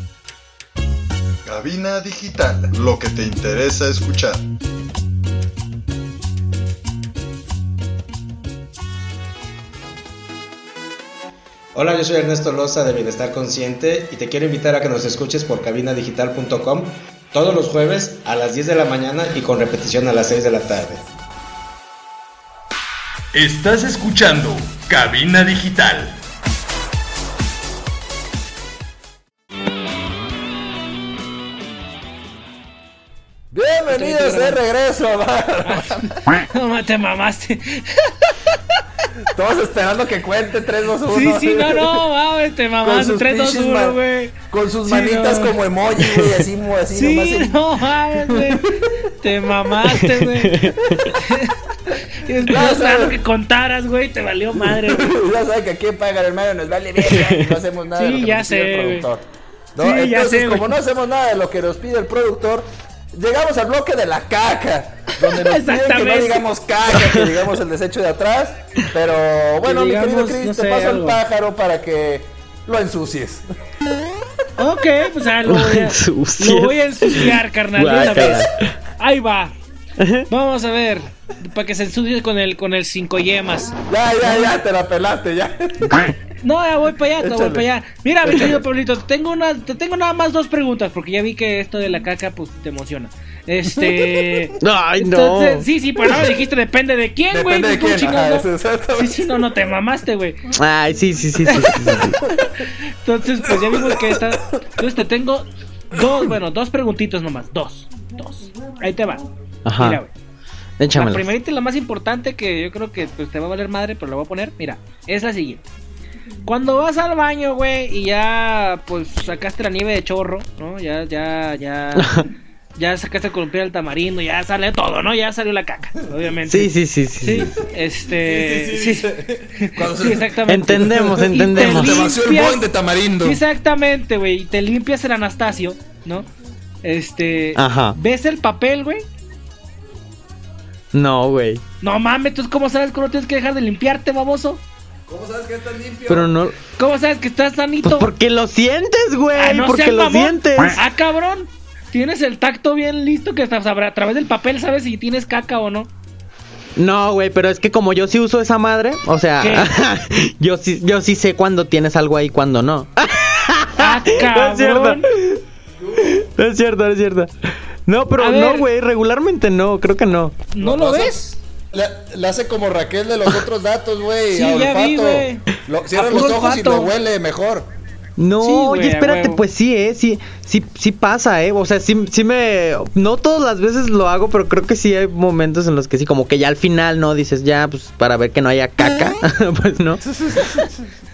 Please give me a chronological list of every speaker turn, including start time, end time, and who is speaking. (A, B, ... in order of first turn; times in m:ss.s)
0:01.4-0:04.4 A
0:11.8-0:21.0 B
0:23.3-0:26.2 C
0:33.5-0:36.2 D
0:33.9-0:34.6 E
0:35.6-0:38.4 E
0:39.3-0:42.1 D
0:41.1-0:45.6 E
0:42.8-0:47.6 D
0:46.0-0:46.4 F
0:46.9-0:48.7 E
0:48.2-0:48.8 D
0:49.2-0:50.6 E
0:50.1-0:51.1 F
0:51.1-0:51.6 E
0:52.1-0:55.2 E
0:52.5-0:53.2 D
0:54.6-0:59.2 D
0:57.1-0:57.6 F
0:58.0-0:59.1 E
0:59.8-1:13.5 D
0:59.8-1:00.7 E
1:05.3-1:06.4 E
1:07.1-1:07.4 F
1:09.6-1:11.2 E
1:14.6-1:18.5 E
1:15.5-1:18.5 F
1:19.0-1:19.6 E
1:20.0-1:20.3 F
1:20.3-1:24.5 E
1:23.9-1:26.1 D
1:25.8-1:26.1 F
1:26.4-1:40.4 E
1:27.2-1:27.7 D
1:28.2-1:28.6 D
1:33.8-1:34.4 D
1:34.6-1:35.7 F
1:37.3-1:39.3 D
1:40.6-1:42.2 F
1:41.4-1:41.8 E
1:43.0-1:49.2 E
1:43.7-1:44.1 D
1:49.7-1:50.0 F
1:49.8-1:50.1 E
1:50.8-1:51.3 F
1:50.9-1:55.7 E
1:56.5-2:02.3 E
2:02.0-2:02.3 F
2:02.8-2:12.7 E
2:06.5-2:07.5 F
2:08.2-2:13.4 D
2:10.5-2:12.1 F
2:13.2-2:16.3 E
2:16.8-2:19.1 E
2:17.6-2:18.0 F
2:20.9-2:21.6 F
2:21.8-2:24.6 E
2:25.1-2:26.4 D
2:26.1-2:26.6 F
2:26.8-2:28.1 E
2:27.8-2:30.8 F
2:29.4-2:35.9 E
2:36.8-2:45.4 F
2:39.4-2:39.7 E
2:43.8-2:45.0 E
2:46.0-2:47.3 F
2:47.9-2:50.4 F
2:48.2-2:48.7 E
2:50.5-2:51.4 E
2:50.6-2:57.7 D
2:54.3-2:56.9 E
2:58.2-3:10.0 F
2:58.4-2:59.4 E
3:10.0-3:10.9 D